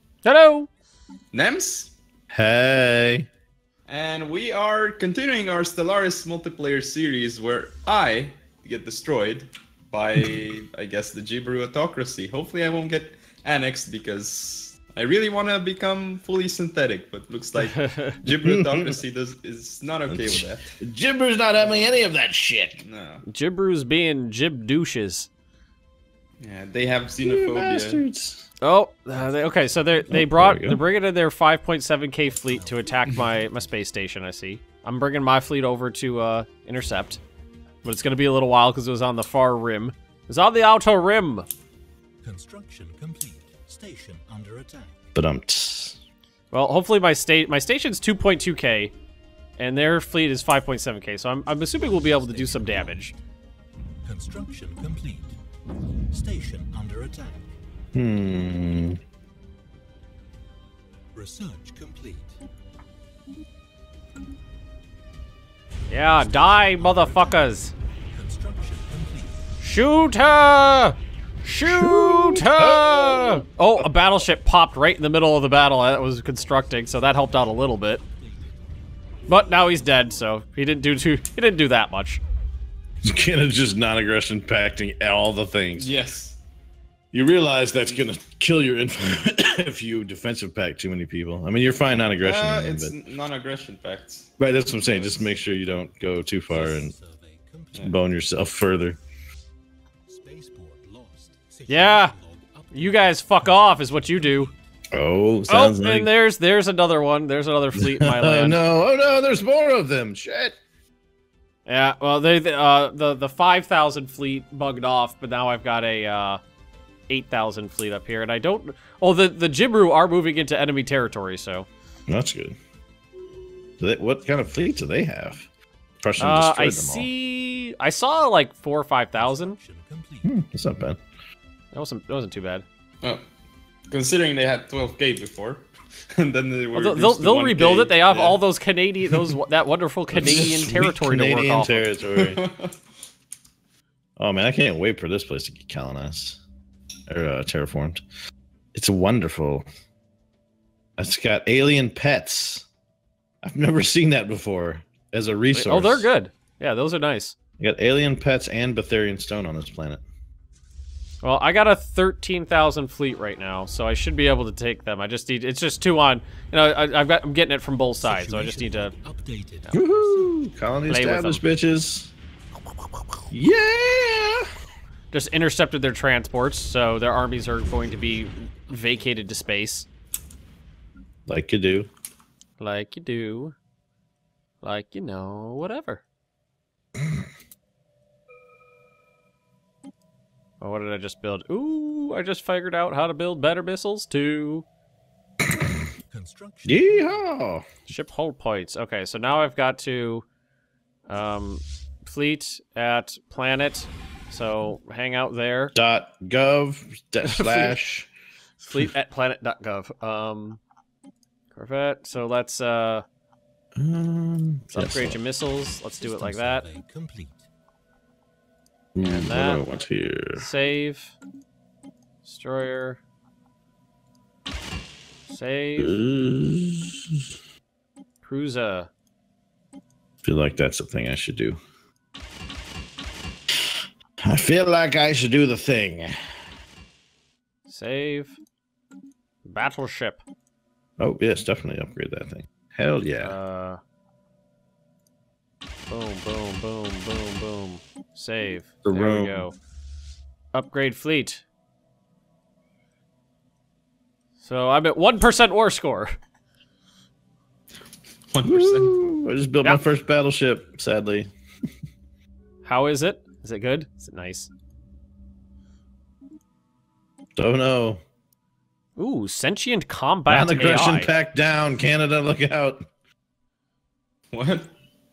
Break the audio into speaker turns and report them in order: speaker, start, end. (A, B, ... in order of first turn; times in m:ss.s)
0:00.2-0:00.7 A
0:01.3-0:02.0 B
0:02.3-0:03.3 C
0:03.9-0:20.8 B
0:17.6-0:18.2 A
0:18.2-0:19.0 C
0:20.1-0:22.8 C
0:22.8-0:23.2 B
0:23.3-0:25.3 A
0:26.4-0:28.0 B
0:27.2-0:28.5 C
0:28.6-0:37.2 A
0:30.1-0:30.8 C
0:32.2-0:33.7 D
0:37.8-0:41.5 A
0:42.2-0:45.1 D
0:45.2-0:46.0 C
0:46.5-0:48.9 A
0:49.6-0:53.1 A
0:51.7-0:53.2 D
0:54.0-0:55.4 D
0:56.1-0:57.6 D
0:57.9-0:59.0 C
1:01.1-1:02.4 D
1:05.9-1:07.7 A
1:06.2-1:07.5 D
1:08.1-1:09.5 D
1:09.6-1:18.0 A
1:11.6-1:13.9 C
1:16.1-1:18.7 D
1:19.3-1:22.2 A
1:23.0-1:25.9 C
1:25.8-1:26.4 B
1:27.1-1:32.9 C
1:32.2-1:34.3 B
1:34.4-1:36.9 C
1:34.8-1:35.4 D
1:36.5-1:38.0 D
1:37.8-1:39.0 C
1:40.1-1:44.7 D
1:41.7-1:42.1 A
1:42.7-1:44.5 A
1:44.9-1:46.1 C
1:45.5-1:48.6 A
1:47.8-1:50.6 C
1:51.7-1:56.4 A
1:57.1-2:01.7 A
2:02.1-2:02.6 C
2:03.8-2:05.5 C
2:06.0-2:07.1 C
2:06.2-2:09.6 A
2:09.2-2:10.3 D
2:10.2-2:11.0 C
2:11.7-2:12.6 A
2:13.9-2:18.4 B
2:16.7-2:21.9 A
2:20.1-2:22.4 C
2:22.1-2:22.7 B
2:24.2-2:26.4 C
2:27.1-2:28.0 C
2:28.7-2:29.7 C
2:31.0-2:32.7 C
2:33.4-2:36.1 C
2:35.5-2:37.4 A
2:37.6-2:40.0 C
2:41.2-2:48.9 A
2:48.0-2:50.4 D
2:49.7-2:52.1 C
2:50.9-2:51.5 A
2:53.3-2:54.5 C
2:55.1-2:59.9 A
2:57.7-2:58.3 D
3:01.3-3:01.9 C
3:02.6-3:03.6 A
3:04.6-3:06.0 A
3:10.6-3:14.7 A
3:15.5-3:15.8 C
3:16.1-3:17.3 D
3:16.6-3:17.6 C
3:17.9-3:20.2 A
3:21.1-3:25.7 A
3:25.7-3:28.1 C
3:27.2-3:27.8 A
3:28.6-3:30.6 A
3:31.5-3:33.0 A
3:33.8-3:35.2 C
3:34.7-3:36.7 A
3:36.0-3:37.5 D
3:39.0-3:40.5 C
3:39.0-3:39.8 A
3:40.4-3:41.2 A
3:42.2-3:43.0 A
3:45.3-3:46.0 A
3:45.8-3:47.3 C
3:48.2-3:48.9 A
3:50.2-3:51.6 C
3:53.5-3:56.1 C
3:57.7-3:58.4 A
3:59.4-4:00.2 A
4:01.0-4:03.4 C
4:03.2-4:03.8 A
4:05.9-4:09.6 A
4:08.8-4:09.5 C
4:10.5-4:11.4 A
4:14.4-4:16.2 A
4:18.3-4:19.0 B
4:18.4-4:21.3 C
4:22.6-4:24.5 A
4:27.4-4:28.0 C
4:29.0-4:31.1 A
4:30.3-4:32.9 C
4:34.3-4:34.7 B